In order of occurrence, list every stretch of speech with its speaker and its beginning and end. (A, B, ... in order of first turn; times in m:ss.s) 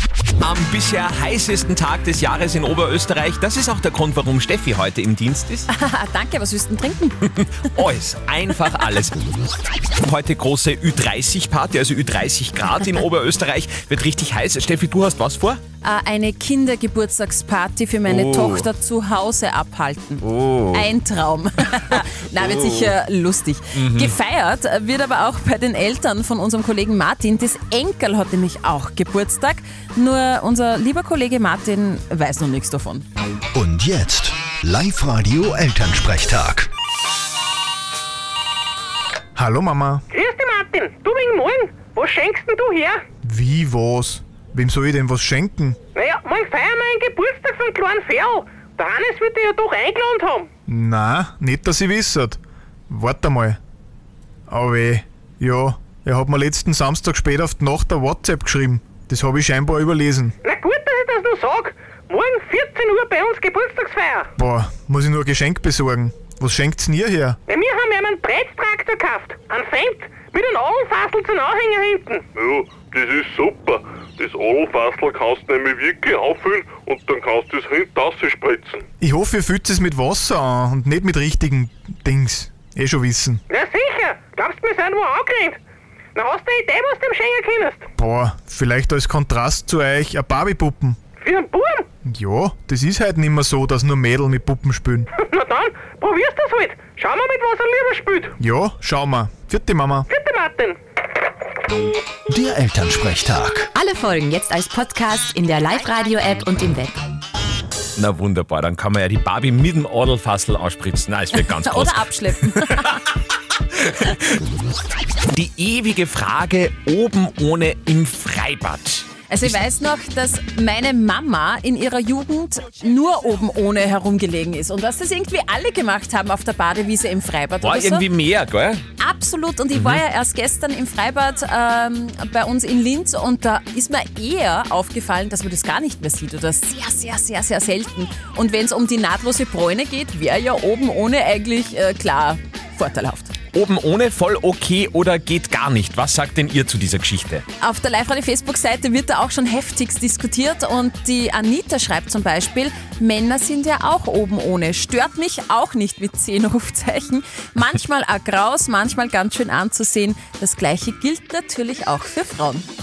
0:00.4-0:05.7 A
0:05.7-0:07.2 B
0:07.4-0:09.1 A
0:10.0-0:15.6 A
0:15.8-0:33.0 B
0:18.1-0:18.7 A
0:20.2-0:20.9 A
0:21.9-0:22.9 A
0:23.7-0:24.1 A
0:33.6-0:36.6 C
0:39.4-0:40.0 D
0:40.1-0:43.0 E
0:43.2-0:45.8 D
0:46.0-0:50.5 E
0:50.7-0:52.4 D
0:52.9-0:53.6 D
0:54.5-1:00.3 D
1:00.4-1:04.3 E
1:04.4-1:07.4 D
1:07.5-1:12.3 E
1:12.4-1:18.8 F
1:19.0-1:23.4 D
1:23.5-1:25.6 E
1:26.2-1:27.8 E
1:28.0-1:31.0 D
1:31.2-1:31.8 E
1:32.0-1:35.1 D
1:35.2-1:38.3 E
1:38.4-1:40.1 D
1:40.1-1:40.8 E
1:42.4-1:43.6 C
1:43.8-1:46.9 G
1:48.0-1:52.0 A
1:51.4-1:52.9 B
1:53.8-1:54.1 A
1:55.3-1:59.6 A
1:59.3-2:08.0 B
2:07.6-2:08.8 A
2:09.0-2:23.3 B
2:09.7-2:10.0 A
2:23.5-2:27.4 A
2:27.6-2:42.7 B